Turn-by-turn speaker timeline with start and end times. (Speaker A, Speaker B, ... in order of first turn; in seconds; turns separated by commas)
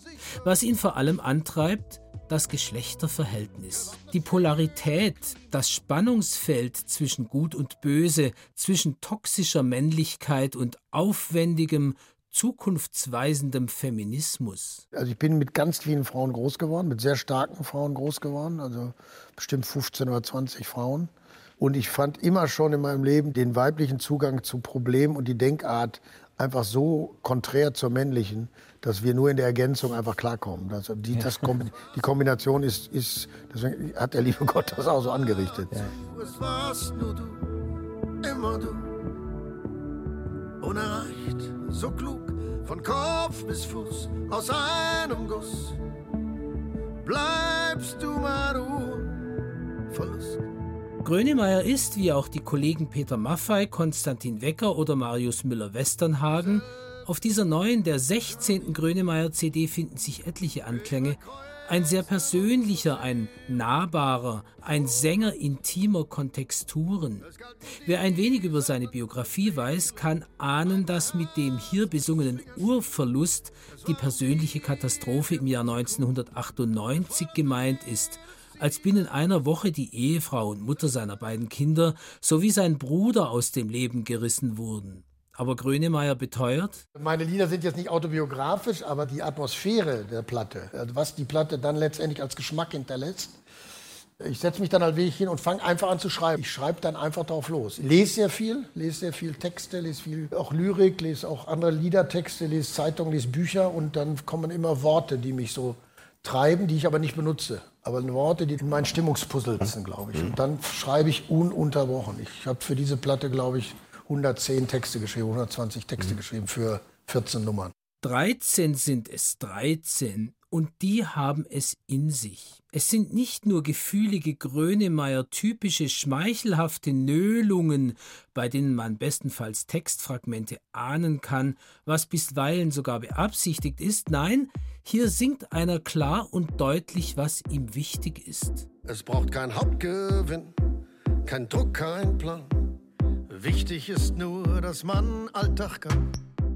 Speaker A: 0.4-14.8, Speaker B: 14.9-35.9, Speaker C: 36.0-37.5, Speaker C: 38.2-38.9, Speaker C: 40.6-45.8, Speaker C: 47.0-49.2, Speaker C: 49.9-50.4, Speaker A: 51.0-67.3, Speaker A: 67.8-86.8, Speaker B: 87.0-93.4, Speaker B: 94.2-117.7, Speaker A: 118.0-138.7, Speaker C: 138.8-140.6, Speaker C: 141.2-142.7, Speaker C: 143.3-146.1